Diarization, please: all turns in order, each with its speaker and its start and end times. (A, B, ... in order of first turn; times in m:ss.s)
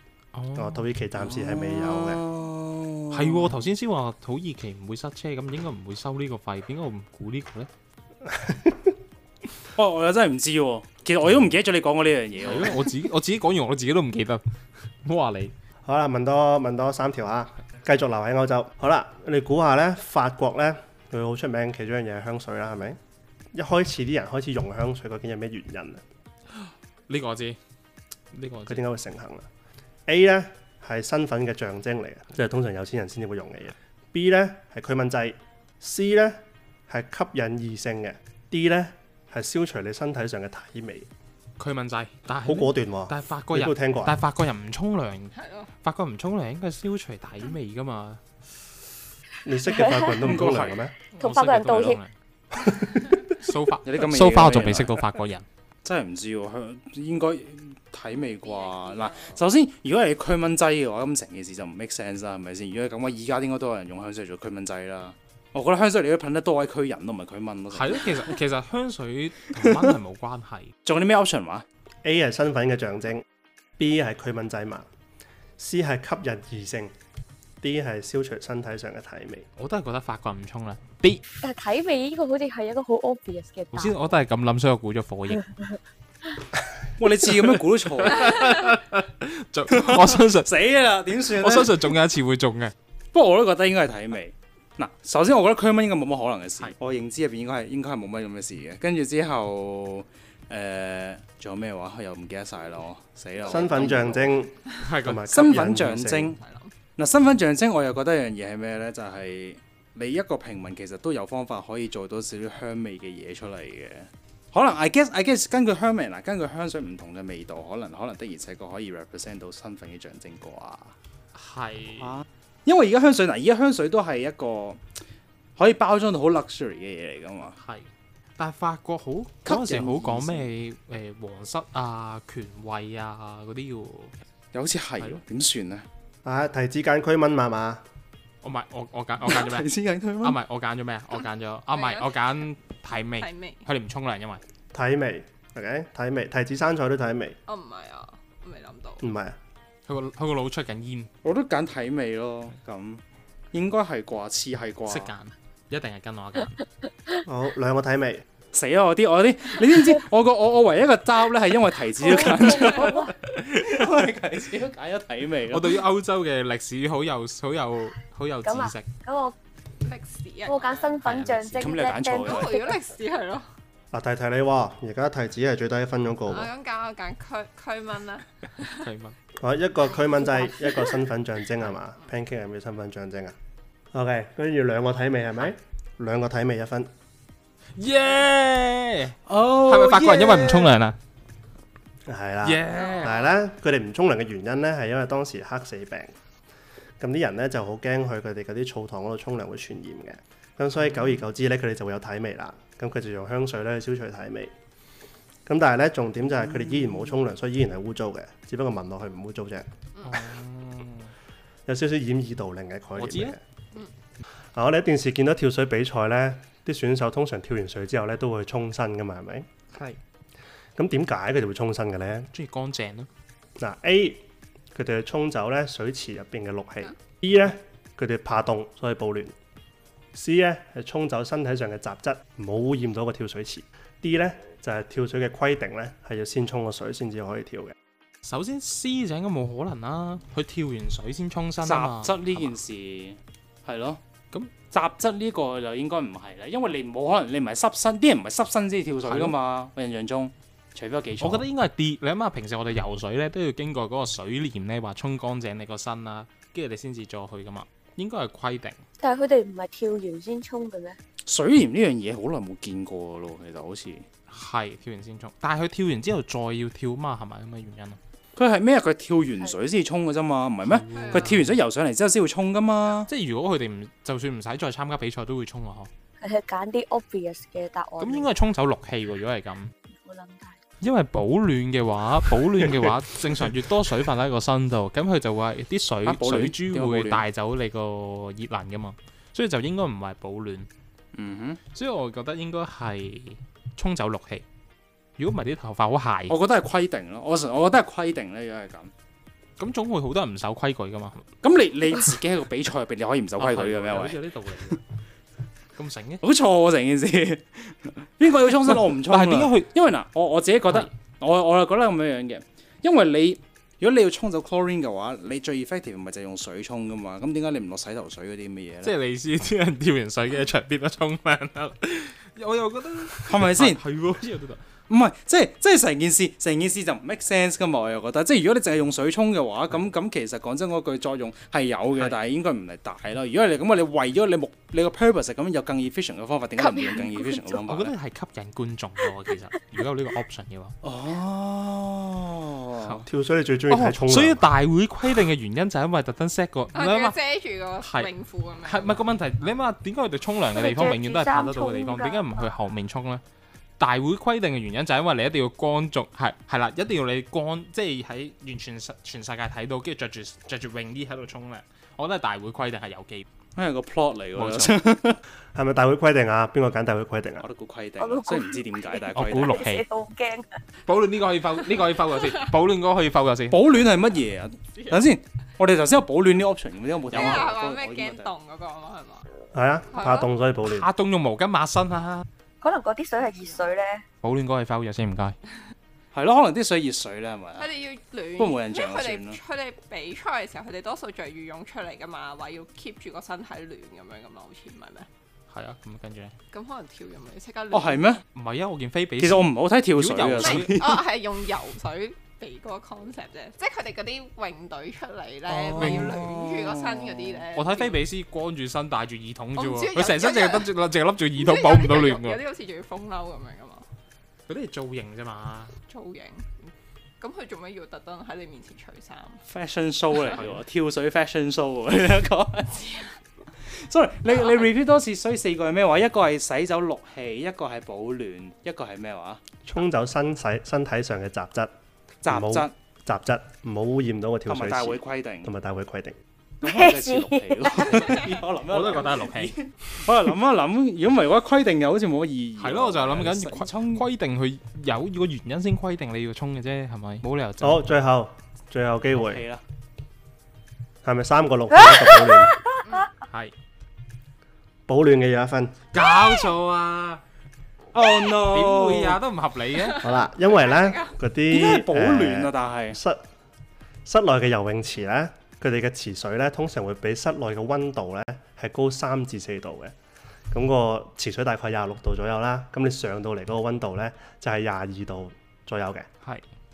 0:00.3-0:00.9 A
0:00.6-0:02.2 B
0:01.2-0:03.6 C
0:03.1-0:07.7 A
0:08.2-0:08.9 B
0:09.7-0:12.9 C
0:12.4-0:14.4 A
0:15.0-0:15.5 A
0:15.8-0:23.0 B
0:23.5-0:26.0 B
0:26.5-0:27.6 A
0:28.3-0:28.8 A
0:28.7-0:29.5 B
0:30.1-0:41.1 B
0:41.6-0:48.2 A
0:42.4-0:44.2 B
0:45.4-0:45.7 D
0:49.4-0:50.9 B
0:49.7-0:50.1 E
0:50.2-0:52.1 A
0:51.2-0:52.0 E
0:52.5-0:53.2 B
0:53.4-0:55.4 A
0:53.8-0:55.0 C
0:55.8-1:08.3 C
0:58.3-0:59.4 D
1:07.7-1:10.7 A
1:10.8-1:11.6 C
1:12.0-1:13.2 B
1:13.8-1:14.9 B
1:15.6-1:16.9 B
1:17.6-1:19.4 B
1:19.6-1:21.2 A
1:21.4-1:24.0 E
1:23.7-1:25.4 A
1:27.0-1:28.4 C
1:28.0-1:30.5 A
1:29.7-1:31.9 C
1:31.3-1:32.7 A
1:33.1-1:44.3 C
1:43.4-1:46.4 B
1:44.8-1:45.6 A
1:45.3-1:46.4 C
1:46.4-1:46.7 D
1:47.0-2:00.9 C
2:01.3-2:02.2 A
2:02.6-2:04.8 C
2:05.6-2:07.6 C
2:07.6-2:07.9 A
2:08.4-2:14.1 A
2:09.4-2:10.5 C
2:14.5-2:15.8 C
2:16.2-2:17.8 B
2:18.4-2:19.7 A
2:19.2-2:20.4 C
2:20.2-2:24.4 A
2:21.7-2:22.2 D
2:23.2-2:23.6 D
2:24.7-2:27.4 B
2:27.5-2:29.0 D
2:29.0-2:29.4 B
2:29.9-2:31.1 A
2:31.2-2:33.0 C
2:33.5-2:35.1 C
2:34.9-2:36.6 A
2:37.2-2:38.2 B
2:38.5-2:45.8 C
2:42.0-2:43.1 E
2:43.1-2:43.8 A
2:45.5-2:48.9 A
2:48.4-2:49.3 E
2:49.8-2:51.0 D
2:50.4-2:52.8 E
2:51.0-2:51.8 A
2:51.6-2:52.6 C
2:52.2-2:53.4 D
2:53.9-2:56.5 B
2:56.3-2:58.9 D
2:58.7-2:59.1 A
2:59.4-3:03.4 B
3:03.9-3:06.9 B
3:07.8-3:11.0 A
3:09.3-3:10.7 C
3:12.0-3:16.1 B
3:12.4-3:13.1 A
3:12.7-3:13.4 D
3:17.0-3:24.5 B
3:25.4-3:29.7 B
3:30.0-3:31.1 A
3:31.7-3:33.4 B
3:33.0-3:33.4 A
3:34.5-3:39.5 B
3:40.8-3:42.3 B
3:42.3-3:43.1 A
3:43.6-3:49.3 B
3:50.1-3:57.7 B
3:58.2-4:02.5 A
4:01.6-4:04.0 C
4:04.7-4:11.4 C
4:09.0-4:09.3 A
4:11.2-4:18.8 A
4:19.0-4:21.0 E
4:21.2-4:24.0 C
4:24.3-4:28.0 A
4:28.4-4:33.1 C
4:30.6-4:31.5 A
4:30.9-4:31.3 D
4:33.1-4:35.9 A
4:36.2-4:38.3 E
4:38.0-4:39.7 A
4:39.9-4:40.6 E
4:40.8-4:50.7 A
4:46.0-4:47.2 C
4:51.1-4:51.6 C
4:51.7-4:54.4 A
4:55.2-4:56.4 A
4:56.3-4:58.9 C
4:59.6-5:01.2 A
5:01.4-5:04.8 C
5:03.4-5:04.8 A
5:05.8-5:06.2 A
5:06.2-5:18.9 C
5:09.0-5:09.7 A
5:18.8-5:24.6 A
5:23.2-5:23.8 C
5:24.9-5:37.9 C
5:36.7-5:37.2 E
5:37.6-5:40.8 A
5:40.8-5:43.0 C
5:43.1-5:44.5 B
5:43.7-5:47.2 A
5:46.7-5:49.0 D
5:47.8-5:48.1 A
5:48.6-5:53.2 A
5:50.5-5:52.4 E
5:53.8-6:03.2 A
6:03.6-6:05.2 C
6:04.4-6:04.8 A
6:05.5-6:07.5 B
6:07.4-6:09.7 C
6:08.0-6:10.6 E
6:09.1-6:09.8 A
6:10.8-6:13.6 A
6:13.5-6:18.3 C
6:17.1-6:19.2 D
6:17.1-6:17.4 A
6:19.5-6:20.9 B
6:19.9-6:20.3 D
6:20.6-6:22.2 A
6:22.6-6:24.0 E
6:24.2-6:25.4 A
6:26.1-6:27.7 C
6:27.6-6:35.1 D
6:28.4-6:29.4 C
6:35.5-6:36.3 A
6:36.5-6:38.2 D
6:37.7-6:38.2 C
6:38.3-6:40.8 A
6:39.2-6:41.0 C
6:40.4-6:48.0 D
6:45.5-6:47.4 C
6:45.8-6:46.3 A
6:47.5-6:52.4 A
6:49.6-6:50.7 D
6:51.3-6:53.9 D
6:54.5-6:55.7 A
6:55.9-6:59.4 D
6:59.5-7:02.9 C
7:02.8-7:03.1 D
7:03.7-7:09.4 C
7:09.6-7:11.7 B
7:12.2-7:12.7 C
7:12.3-7:16.2 B
7:14.5-7:15.5 C
7:16.6-7:24.0 C
7:16.6-7:18.2 E
7:18.7-7:19.6 A
7:22.6-7:27.9 A
7:27.6-7:29.4 B
7:29.1-7:29.6 C
7:31.0-7:32.6 B
7:33.3-7:33.5 A
7:34.9-7:35.8 B
7:35.9-7:37.2 A
7:37.9-7:39.2 C
7:38.3-7:40.1 A
7:39.8-7:41.1 D
7:40.0-7:43.2 B
7:41.5-7:43.0 C
7:44.0-7:49.9 B
7:50.5-7:56.1 B